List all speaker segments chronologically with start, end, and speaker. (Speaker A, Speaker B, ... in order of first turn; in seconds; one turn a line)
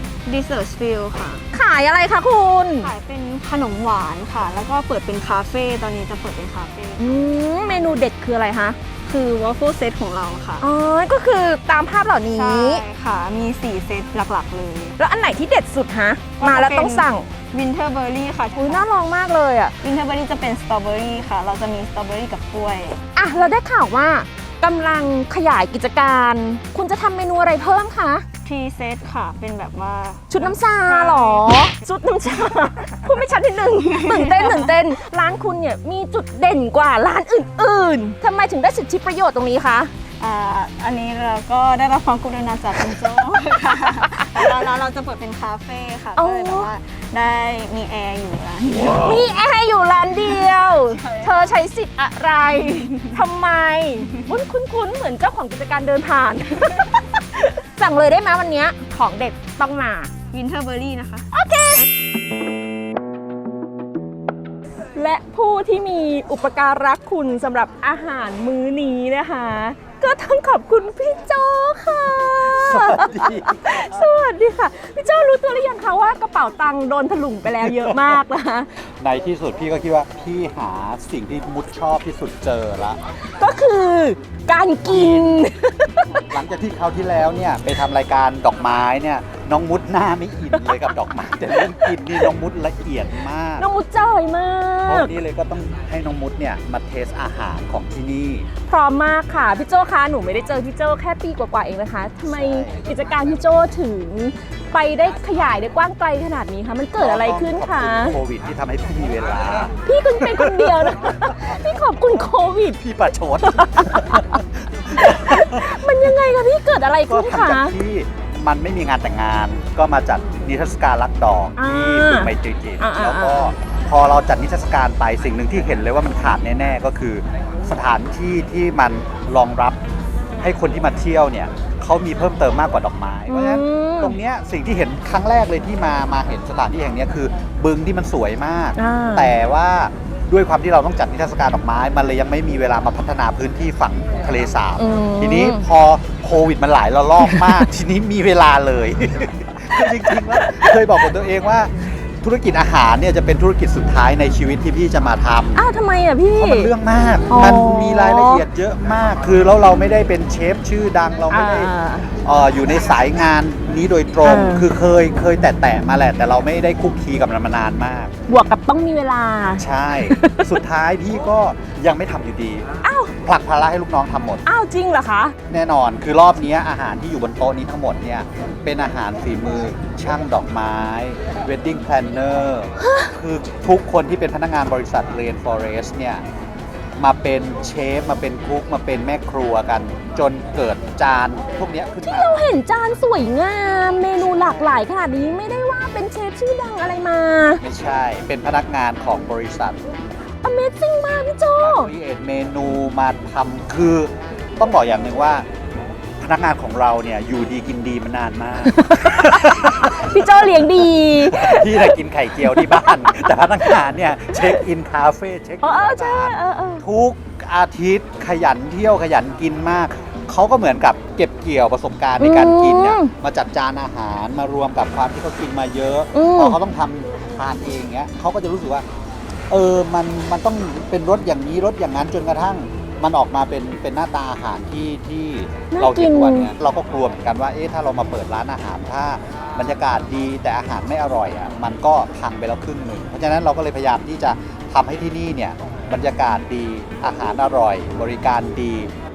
Speaker A: 0.2-1.4
Speaker B: 1.5-2.9
Speaker A: 2.8-7.1
Speaker B: 7.0-8.8
Speaker A: 7.6-8.0
Speaker A: 9.1-10.6
Speaker B: 10.6-12.8
Speaker A: 12.3-14.9
Speaker B: 15.0-17.2
Speaker A: 16.4-18.8
Speaker B: 18.6-19.7
Speaker A: 19.8-23.0
Speaker B: 23.1-28.2
Speaker A: 28.4-31.5
Speaker B: 30.3-39.9
Speaker A: 33.0-34.7
Speaker A: 40.2-49.2
Speaker B: 46.1-46.7
Speaker B: 49.0-60.1
Speaker A: 50.3-51.5
Speaker A: 60.3-61.3
Speaker B: 61.3-61.8
Speaker B: 64.9-78.7
Speaker C: 72.5-74.0
Speaker C: 77.6-78.1
Speaker C: 79.0-83.0
Speaker B: 83.3-86.2
Speaker C: 84.9-85.4
Speaker C: 86.3-93.7
Speaker B: 90.5-92.3
Speaker B: 93.6-95.1
Speaker C: 94.8-98.5
Speaker B: 98.7-108.2
Speaker C: 102.3-102.8
Speaker C: 107.0-111.3
Speaker B: 109.8-112.8
Speaker C: 112.8-115.8
Speaker B: 113.4-114.4
Speaker B: 114.9-117.8
Speaker C: 117.1-129.8
Speaker B: 121.5-123.5
Speaker C: 130.4-155.6
Speaker B: 133.3-134.2
Speaker B: 138.8-139.3
Speaker B: 144.8-145.6
Speaker B: 147.2-147.7
Speaker B: 149.8-150.8
Speaker B: 155.6-156.7
Speaker C: 156.3-168.1
Speaker B: 157.3-158.4
Speaker B: 161.3-162.1
Speaker B: 164.2-164.7
Speaker B: 168.3-170.6
Speaker C: 169.6-172.7
Speaker B: 172.8-173.1
Speaker C: 173.2-174.4
Speaker B: 174.4-175.3
Speaker C: 175.5-186.2
Speaker B: 182.8-183.1
Speaker C: 187.0-192.4
Speaker B: 192.0-197.6
Speaker C: 194.2-194.7
Speaker C: 197.6-199.8
Speaker B: 200.4-201.9
Speaker C: 201.6-205.4
Speaker C: 206.2-210.2
Speaker B: 208.7-213.2
Speaker C: 211.2-228.8
Speaker B: 215.6-216.8
Speaker B: 222.2-223.1
Speaker B: 226.1-226.6
Speaker C: 229.5-248.9
Speaker B: 235.7-236.5